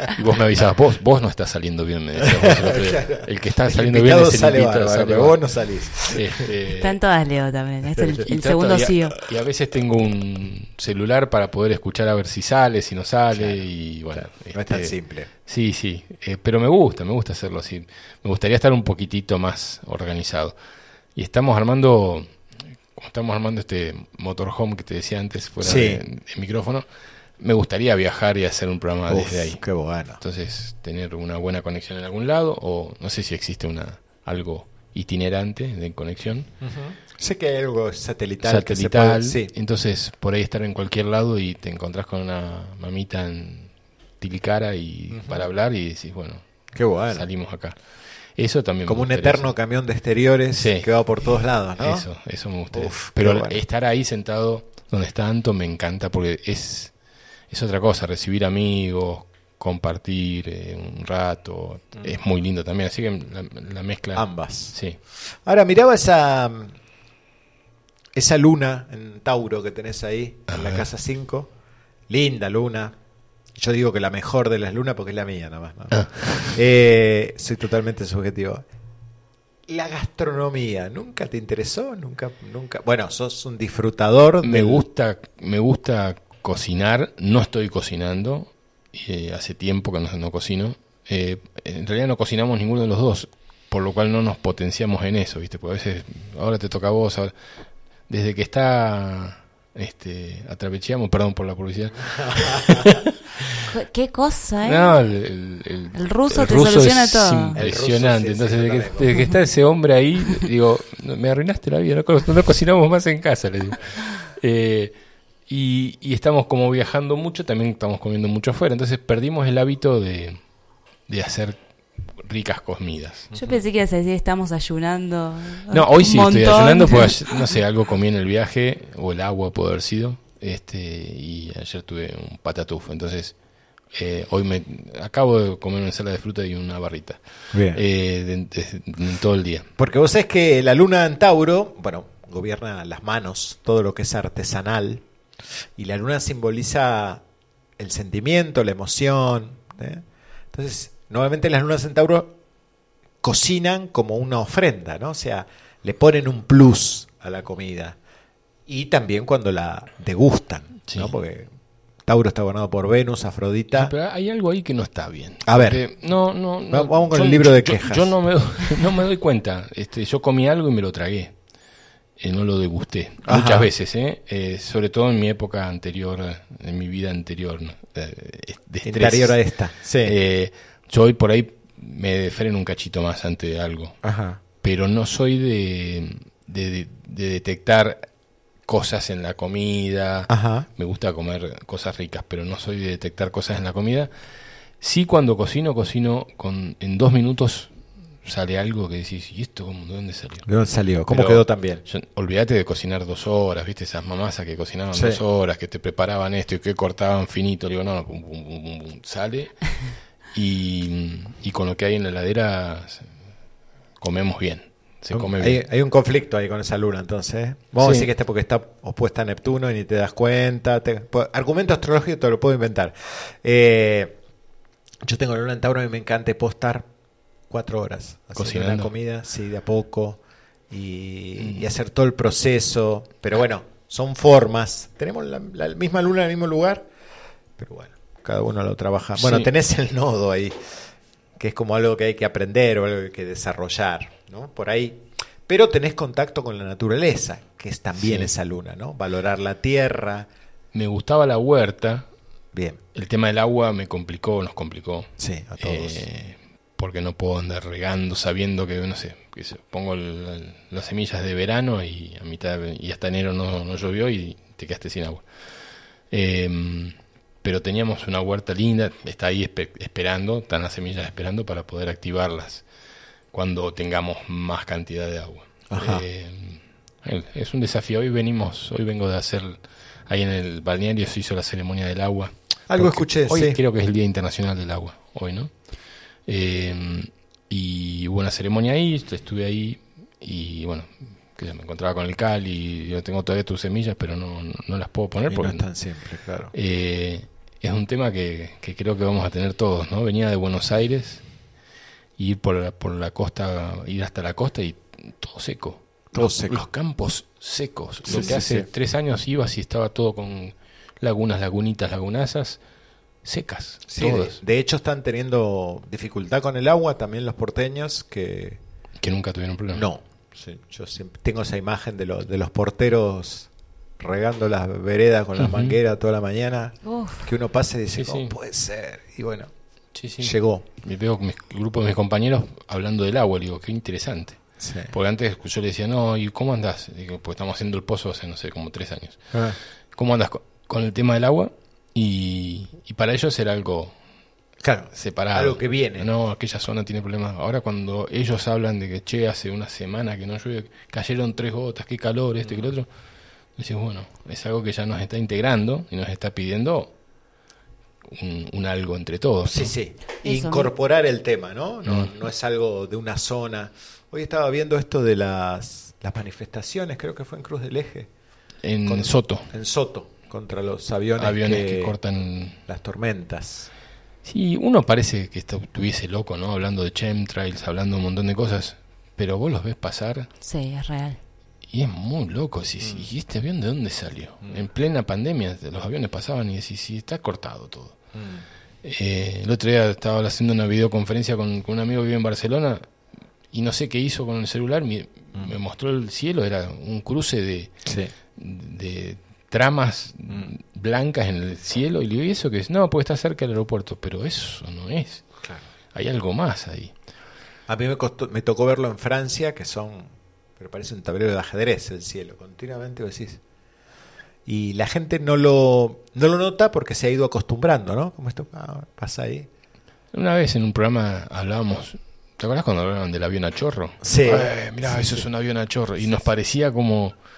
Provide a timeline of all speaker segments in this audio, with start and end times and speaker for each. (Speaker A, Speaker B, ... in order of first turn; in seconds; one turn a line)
Speaker A: 0.1-7.0
Speaker B: 2.2-6.3
Speaker C: 6.7-9.2
Speaker B: 7.9-8.3
Speaker A: 8.2-20.6
Speaker B: 8.8-9.1
Speaker B: 13.3-15.3
Speaker A: 21.1-36.5
Speaker B: 25.6-26.0
Speaker B: 29.1-30.2
Speaker B: 36.6-39.5
Speaker A: 38.4-49.5
Speaker B: 45.1-45.5
Speaker B: 46.7-47.3
Speaker B: 48.8-52.1
Speaker A: 50.5-50.9
Speaker A: 51.8-56.9
Speaker B: 52.7-53.6
Speaker A: 57.5-65.0
Speaker B: 64.1-66.7
Speaker B: 68.1-71.5
Speaker A: 70.5-70.9
Speaker B: 72.1-73.0
Speaker B: 73.5-78.6
Speaker A: 75.9-76.5
Speaker B: 79.7-84.9
Speaker A: 84.4-97.3
Speaker A: 98.1-103.4
Speaker B: 102.1-103.0
Speaker C: 103.7-105.0
Speaker A: 104.6-120.4
Speaker C: 105.9-107.6
Speaker B: 107.5-109.3
Speaker A: 121.1-121.6
Speaker A: 122.2-123.3
Speaker C: 123.3-127.4
Speaker A: 125.7-133.3
Speaker A: 133.9-139.7
Speaker B: 137.5-137.8
Speaker B: 139.8-145.0
Speaker B: 145.8-147.2
Speaker B: 147.8-152.4
Speaker B: 153.2-158.0
Speaker B: 158.7-161.5
Speaker B: 162.1-163.9
Speaker A: 163.7-171.4
Speaker B: 165.4-168.2
Speaker A: 172.2-179.4
Speaker B: 173.2-173.7
Speaker B: 178.8-180.2
Speaker A: 180.0-184.0
Speaker B: 184.0-184.4
Speaker A: 184.5-188.1
Speaker A: 188.6-194.1
Speaker B: 190.3-190.7
Speaker A: 194.8-200.4
Speaker B: 200.4-201.8
Speaker A: 201.1-213.1
Speaker B: 204.9-205.2
Speaker A: 214.0-215.6
Speaker B: 215.1-224.2
Speaker A: 217.8-218.1
Speaker B: 225.0-226.9
Speaker B: 227.5-236.9
Speaker A: 228.3-228.9
Speaker A: 231.4-231.7
Speaker B: 237.6-240.8
Speaker A: 239.2-239.5
Speaker B: 241.3-250.3
Speaker A: 248.0-248.3
Speaker A: 250.7-252.1
Speaker B: 252.5-252.8
Speaker A: 252.9-265.3
Speaker B: 255.2-256.0
Speaker A: 266.1-272.6
Speaker A: 273.3-285.6
Speaker B: 275.7-276.0
Speaker B: 282.7-283.6
Speaker A: 286.2-295.6
Speaker B: 295.2-296.5
Speaker A: 296.5-301.2
Speaker A: 302.2-312.6
Speaker B: 306.1-306.6
Speaker B: 308.0-308.7
Speaker A: 313.2-314.4
Speaker B: 313.9-318.6
Speaker A: 319.0-319.9
Speaker B: 319.7-329.5
Speaker A: 325.4-325.8
Speaker C: 326.8-327.3
Speaker A: 327.9-328.3
Speaker A: 329.9-339.4
Speaker B: 330.2-330.6
Speaker B: 334.6-334.9
Speaker A: 339.9-343.9
Speaker B: 344.6-346.1
Speaker A: 344.9-352.9
Speaker B: 352.4-352.7
Speaker A: 353.6-356.9
Speaker A: 358.0-359.7
Speaker B: 359.4-368.1
Speaker C: 360.2-360.7
Speaker A: 361.8-362.1
Speaker A: 368.6-369.5
Speaker B: 368.8-372.0
Speaker A: 371.2-372.6
Speaker B: 372.7-373.7
Speaker A: 374.2-380.3
Speaker C: 380.4-381.2
Speaker A: 381.7-388.1
Speaker B: 382.8-383.1
Speaker B: 388.1-388.4
Speaker A: 388.8-392.9
Speaker A: 393.5-397.8
Speaker B: 397.8-398.1
Speaker A: 398.3-405.4
Speaker A: 405.9-406.9
Speaker B: 407.7-413.4
Speaker B: 414.4-419.5
Speaker A: 420.1-427.1
Speaker B: 424.0-425.2